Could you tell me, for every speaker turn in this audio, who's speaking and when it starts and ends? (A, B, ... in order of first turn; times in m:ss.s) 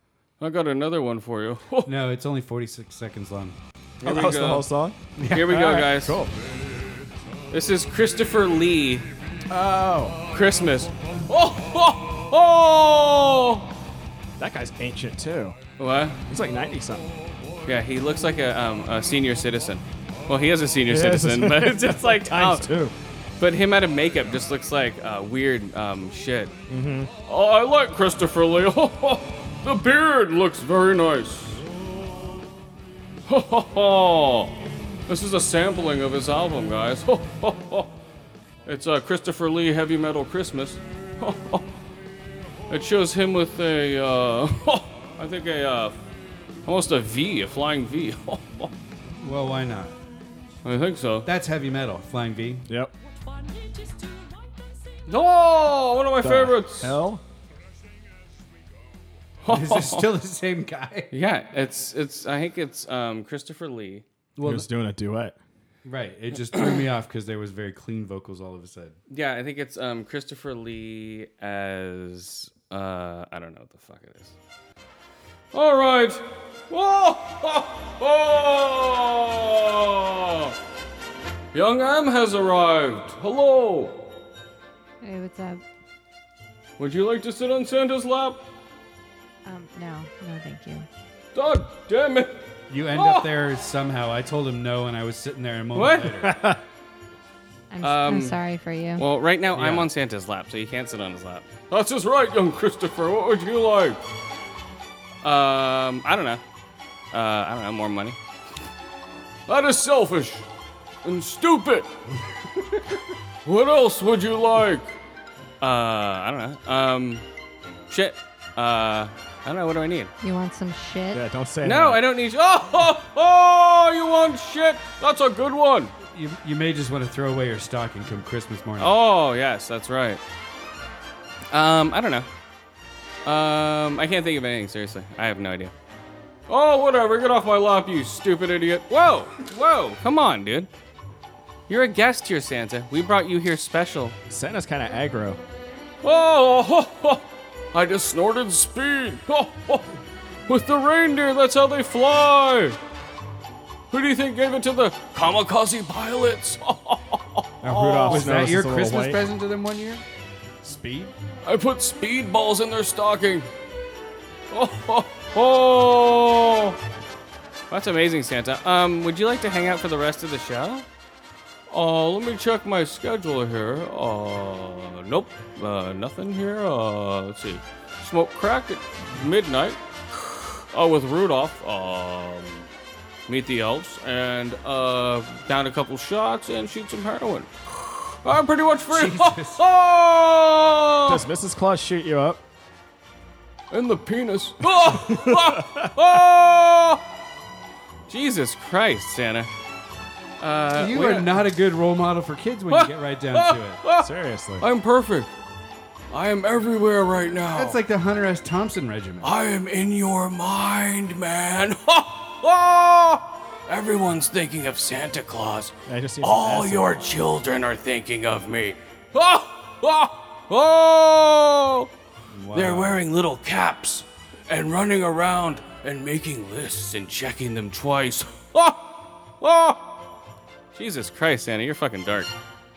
0:00.4-0:01.9 A
0:01.8-0:03.6 B
0:04.0-0:04.6 A
0:04.0-0:06.3 C
0:05.2-0:05.9 B
0:05.3-0:06.2 A
0:07.5-0:09.1 A
0:09.5-0:10.2 C
0:10.3-0:13.7 A
0:14.4-0:15.6 C
0:15.8-0:16.2 A
0:16.3-0:17.1 C
0:17.6-0:22.7 A
0:20.9-0:22.9 C
0:23.4-0:26.5 A
0:26.7-0:27.1 C
0:27.3-0:31.6 A
0:33.3-0:34.6 A
0:35.1-0:37.9 A
0:38.6-0:41.6 A
0:42.7-0:46.0 A
0:46.6-0:48.7 A
0:49.2-0:50.0 B
0:50.6-0:51.3 A
0:51.2-0:52.6 B
0:52.7-0:52.9 C
0:55.1-0:56.9 A
0:56.2-0:57.2 C
0:59.4-1:00.1 A
0:59.4-1:01.1 B
1:01.1-1:04.0 A
1:04.4-1:04.7 B
1:04.4-1:05.4 C
1:05.8-1:09.0 B
1:09.1-1:14.3 A
1:15.5-1:20.5 A
1:21.5-1:24.0 A
1:25.0-1:25.6 D
1:26.8-1:28.4 A
1:29.4-1:30.9 D
1:31.3-1:33.3 A
1:32.7-1:36.4 B
1:35.7-1:36.1 A
1:36.2-1:36.6 C
1:37.7-1:39.0 D
1:37.8-1:38.4 A
1:39.0-1:44.0 A
1:39.5-1:39.9 B
1:45.2-1:46.4 A
1:47.1-1:48.2 A
1:49.5-1:50.4 A
1:51.0-1:51.9 A
1:53.4-1:54.9 A
1:55.6-1:57.2 A
1:57.9-2:00.1 A
2:00.2-2:01.2 D
2:01.1-2:02.0 C
2:01.6-2:05.9 A
2:06.1-2:09.0 B
2:08.8-2:10.2 A
2:11.5-2:12.3 A
2:13.2-2:15.7 A
2:16.5-2:20.7 A
2:21.7-2:24.2 A
2:24.3-2:25.4 C
2:26.0-2:29.9 A
2:30.5-2:32.8 A
2:33.9-2:38.4 A
2:37.6-2:40.0 B
2:37.6-2:39.2 C
2:40.6-2:41.1 B
2:40.6-2:41.1 C
2:41.4-2:43.5 A
2:44.5-2:46.8 A
2:47.7-2:50.8 A
2:51.7-2:59.8 A
3:00.7-3:02.7 A
3:03.3-3:07.5 A
3:08.2-3:11.2 A
3:08.9-3:09.6 B
3:11.0-3:12.4 C
3:13.7-3:17.0 A
3:14.7-3:16.0 C
3:18.1-3:19.5 A
3:20.4-3:21.4 A
3:20.7-3:23.8 B
3:22.7-3:24.1 A
3:24.0-3:24.6 C
3:24.6-3:25.3 A
3:26.1-3:27.8 A
3:27.5-3:29.3 B
3:29.2-3:41.9 A
3:35.8-3:37.0 C
3:42.3-3:43.0 B
3:42.5-3:49.8 A
3:50.7-3:52.3 A